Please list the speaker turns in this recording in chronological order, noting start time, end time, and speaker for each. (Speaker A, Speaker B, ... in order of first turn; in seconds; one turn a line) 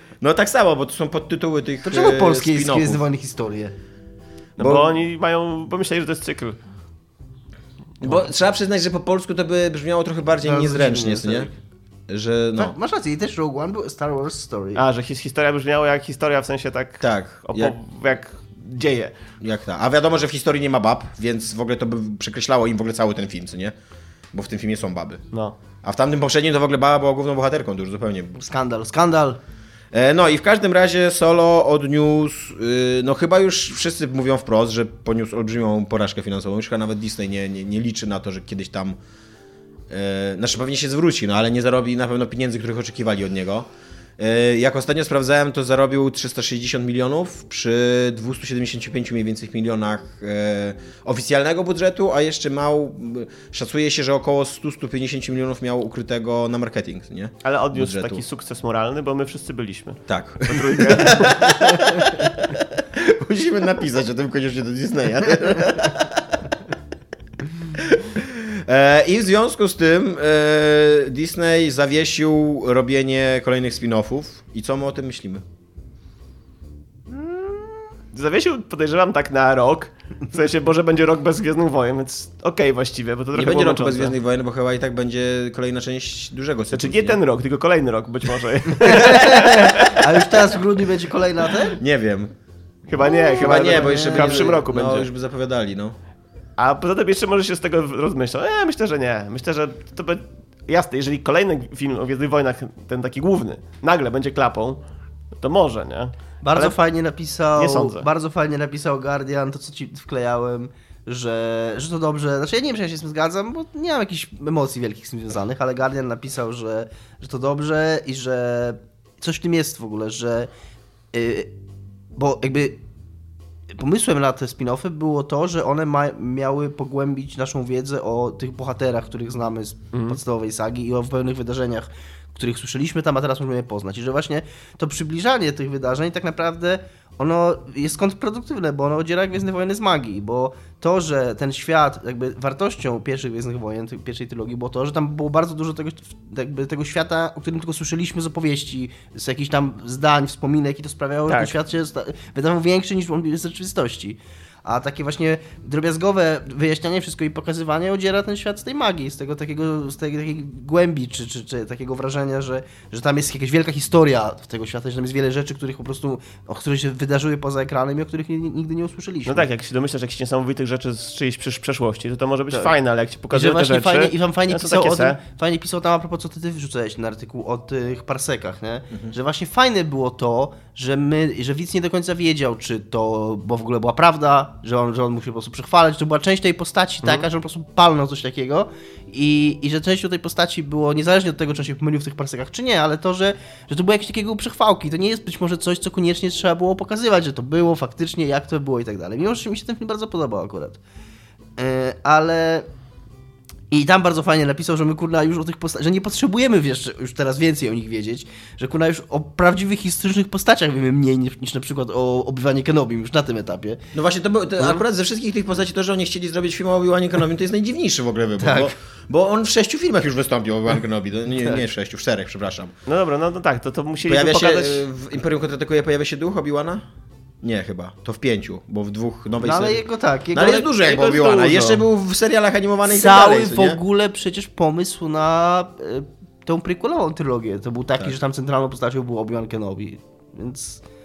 Speaker A: 0.2-3.0
Speaker B: 1.8-3.7
Speaker A: 4.6-4.9
Speaker C: 4.6-6.6
Speaker A: 8.0-11.5
Speaker B: 10.4-11.6
Speaker A: 12.1-12.8
Speaker B: 12.6-14.8
Speaker C: 14.8-19.1
Speaker A: 17.0-17.7
Speaker A: 19.4-23.7
Speaker A: 24.3-25.2
Speaker A: 25.8-28.4
Speaker B: 28.4-29.4
Speaker A: 29.9-39.0
Speaker A: 39.9-43.7
Speaker A: 44.2-58.2
Speaker C: 57.4-61.3
Speaker A: 60.1-66.5
Speaker A: 67.7-75.4
Speaker C: 78.1-84.1
Speaker A: 83.3-87.2
Speaker C: 86.7-90.1
Speaker B: 88.8-91.8
Speaker A: 91.8-92.3
Speaker C: 92.9-95.1
Speaker B: 93.0-94.5
Speaker A: 93.3-96.0
Speaker C: 96.6-104.8
Speaker C: 105.4-106.8
Speaker B: 106.4-120.5
Speaker C: 107.5-108.1
Speaker B: 121.1-121.5
Speaker B: 122.1-122.8
Speaker B: 123.7-169.5
Speaker C: 129.9-130.2
Speaker C: 151.3-151.5
Speaker C: 169.3-175.2
Speaker B: 173.3-200.8
Speaker B: 201.6-202.7
Speaker B: 203.7-213.8
Speaker A: 213.9-222.7
Speaker B: 218.4-218.7
Speaker B: 221.4-221.6
Speaker C: 222.8-224.8
Speaker A: 224.1-226.8
Speaker A: 227.4-233.8
Speaker B: 229.4-231.8
Speaker B: 232.8-240.8